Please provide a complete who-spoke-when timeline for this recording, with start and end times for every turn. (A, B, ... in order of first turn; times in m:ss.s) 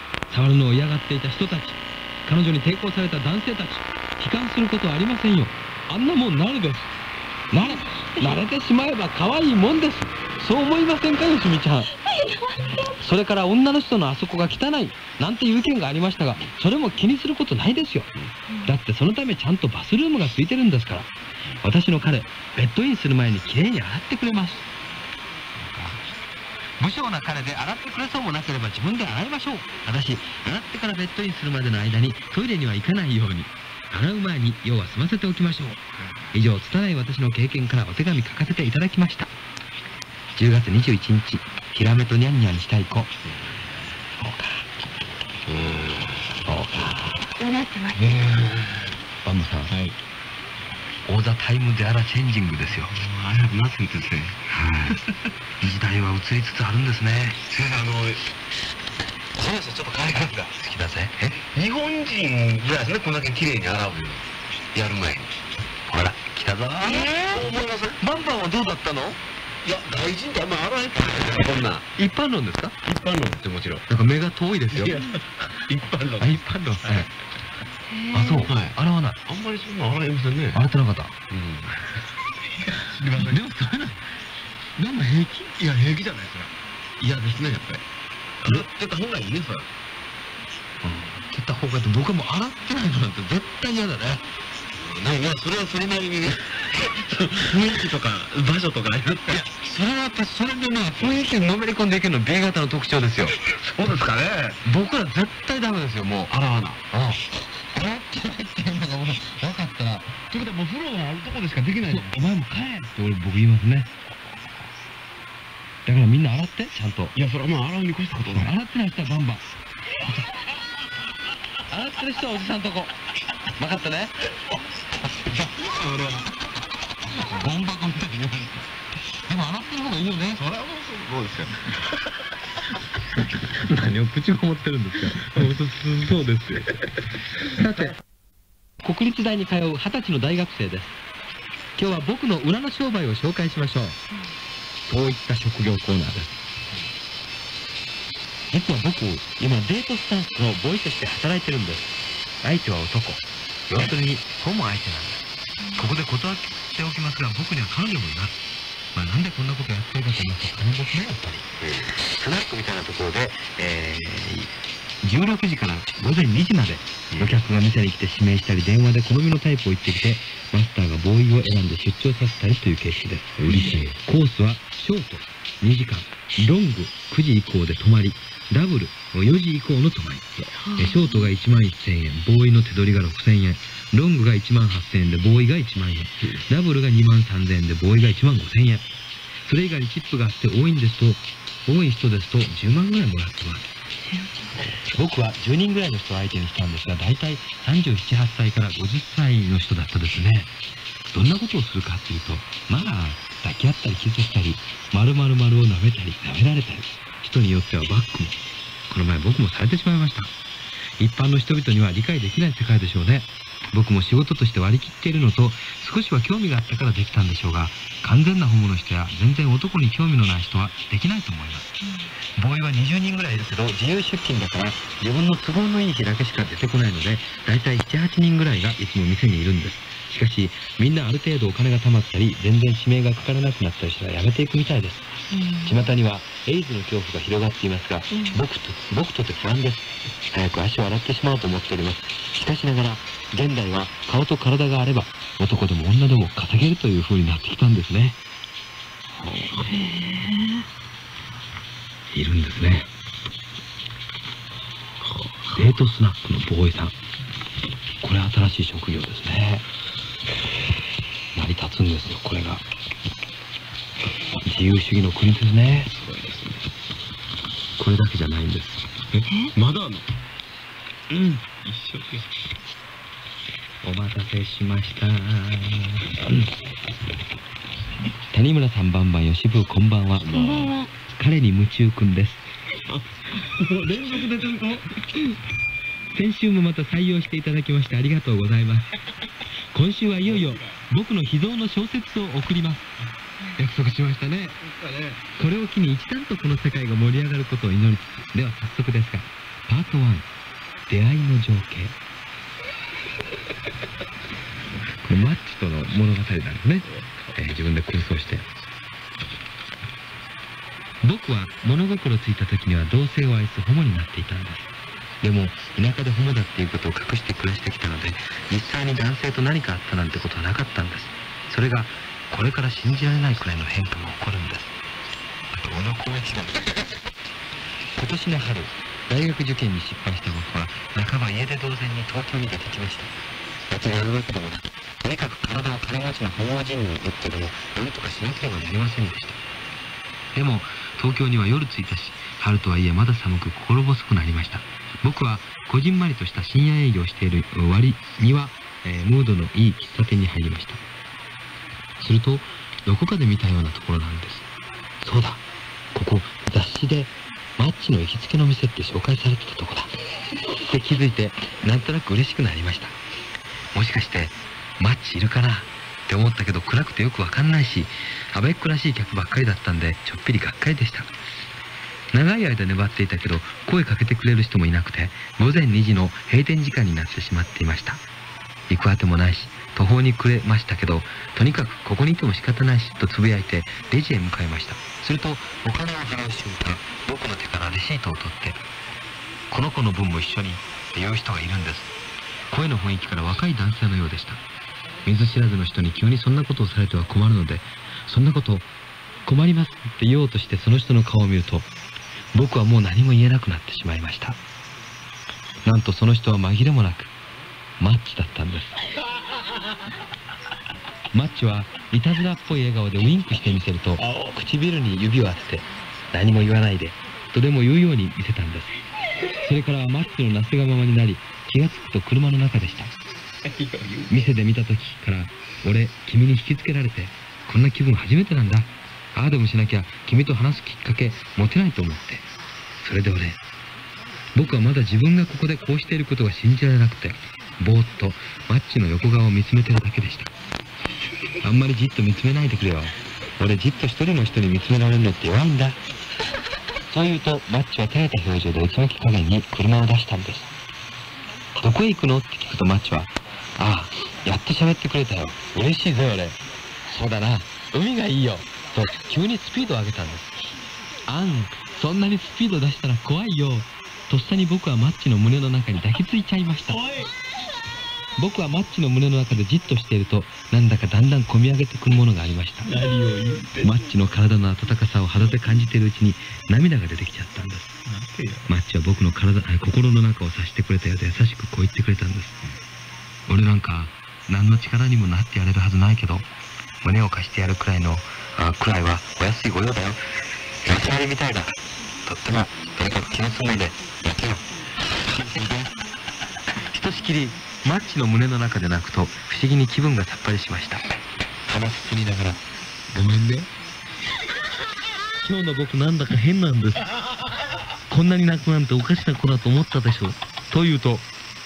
0:00.3-0:06.9 A
0:07.5-0:11.9 A
0:07.6-0:08.4 B
0:12.0-0:12.9 B
0:12.9-0:18.1 A
0:18.6-0:21.1 A
0:21.6-0:24.7 A
0:25.7-0:26.0 A
0:26.8-0:35.8 A
0:36.0-0:36.2 C
0:36.3-0:39.3 A
0:40.4-0:43.1 A
0:44.2-0:44.6 A
0:45.5-0:46.3 C
0:46.4-0:47.2 A
0:47.4-0:48.3 B
0:48.0-0:48.8 C
0:49.2-0:49.7 A
0:49.7-0:50.0 C
0:51.1-0:52.9 A
0:52.8-0:55.2 C
0:54.5-0:55.0 A
0:55.6-0:57.5 A
0:57.5-0:58.2 C
0:59.4-1:00.2 C
0:59.5-1:01.4 A
1:01.4-1:05.3 C
1:05.9-1:07.4 A
1:06.8-1:08.0 C
1:08.0-1:09.2 A
1:09.6-1:11.8 C
1:12.0-1:12.8 A
1:12.8-1:13.8 C
1:13.9-1:15.0 A
1:14.7-1:17.0 C
1:16.2-1:17.1 A
1:17.9-1:18.5 B
1:18.1-1:19.2 A
1:18.4-1:20.6 C
1:20.5-1:21.1 A
1:21.3-1:21.8 C
1:22.7-1:23.4 C
1:23.2-1:24.0 A
1:24.8-1:25.5 A
1:25.6-1:27.8 C
1:28.4-1:29.7 C
1:30.8-1:34.2 A
1:34.7-1:39.4 C
1:39.3-1:43.4 A
1:43.4-1:44.6 C
1:44.6-1:46.3 A
1:46.3-1:46.8 C
1:46.9-1:47.2 A
1:47.7-1:50.1 A
1:50.3-1:52.3 C
1:51.9-1:53.9 A
1:55.8-1:57.1 A
1:57.1-1:58.5 C
1:58.3-1:59.4 A
2:01.7-2:02.9 A
2:03.6-2:04.1 A
2:05.4-2:06.4 C
2:07.2-2:08.5 A
2:09.3-2:10.4 A
2:10.4-2:11.9 C
2:13.5-2:16.8 A
2:17.4-2:18.0 A
2:18.8-2:21.0 A
2:21.8-2:24.0 A
2:24.9-2:26.3 A
2:28.5-2:35.2 A
2:35.7-2:38.4 A
2:38.9-2:44.5 A
2:41.6-2:41.9 C
2:45.0-3:08.8 A
2:47.1-2:47.4 C
2:53.4-2:53.8 C
3:00.6-3:01.3 B
3:09.4-3:13.6 A
3:14.9-3:20.5 A
3:21.1-3:28.4 A
3:28.9-3:30.3 A
3:31.0-3:41.7 A
3:42.4-3:55.0 A
3:55.3-3:55.8 B
3:55.6-4:08.2 A
3:58.1-3:58.4 B
4:09.5-4:10.6 B
4:12.1-4:12.9 A
4:15.0-4:15.5 C
4:15.5-4:16.9 A
4:18.0-4:19.6 A
4:21.3-4:22.6 A
4:24.4-4:25.9 A
4:25.9-4:26.6 C
4:27.8-4:28.8 A
4:29.1-4:30.0 C
4:31.1-4:31.4 A
4:31.6-4:32.3 C
4:33.8-4:36.5 A
4:38.3-4:40.3 A
4:40.2-4:40.8 C
4:40.3-4:40.9 B
4:41.1-4:42.4 A
4:42.8-4:44.9 C
4:44.0-4:44.6 A
4:46.1-4:48.9 A
4:49.7-4:52.9 A
4:50.2-4:50.7 C
4:53.6-4:54.6 A
4:54.6-4:55.2 C
4:55.4-5:00.3 A
5:00.9-5:01.9 A
5:05.1-5:08.5 A
5:11.0-5:14.6 A
5:15.2-5:24.7 A
5:25.6-5:26.9 A
5:28.0-5:33.1 A
5:33.7-5:39.4 A
5:40.3-5:50.8 A
5:52.0-5:54.5 A
5:55.0-5:55.4 A
5:55.9-5:59.9 A
6:00.5-6:03.0 A
6:03.7-6:11.1 A
6:12.1-6:18.0 A
6:18.7-6:28.6 A
6:29.5-6:31.9 A
6:32.5-6:34.4 A
6:35.0-6:38.7 A
6:39.3-6:41.7 A
6:42.3-6:44.4 A
6:45.6-6:47.1 A
6:47.8-6:48.8 A
6:51.1-6:58.7 A
6:54.0-6:54.3 C
6:59.3-7:02.9 A
7:03.4-7:04.1 C
7:04.1-7:12.2 A
7:12.8-7:13.4 A
7:14.3-7:20.3 A
7:21.4-7:25.8 A
7:26.9-7:30.5 A
7:31.6-7:36.4 A
7:36.9-7:40.3 A
7:41.1-7:46.8 A
7:46.7-7:47.1 C
7:48.2-7:52.7 A
7:52.7-7:53.9 C
7:53.6-7:57.7 A
7:57.9-7:58.5 C
7:58.5-8:02.4 A
8:03.3-8:06.2 A
8:06.8-8:10.0 A
8:10.6-8:15.7 A
8:16.6-8:20.8 A
8:21.5-8:22.4 A
8:22.9-8:23.5 A
8:25.2-8:26.9 A
8:27.9-8:31.1 A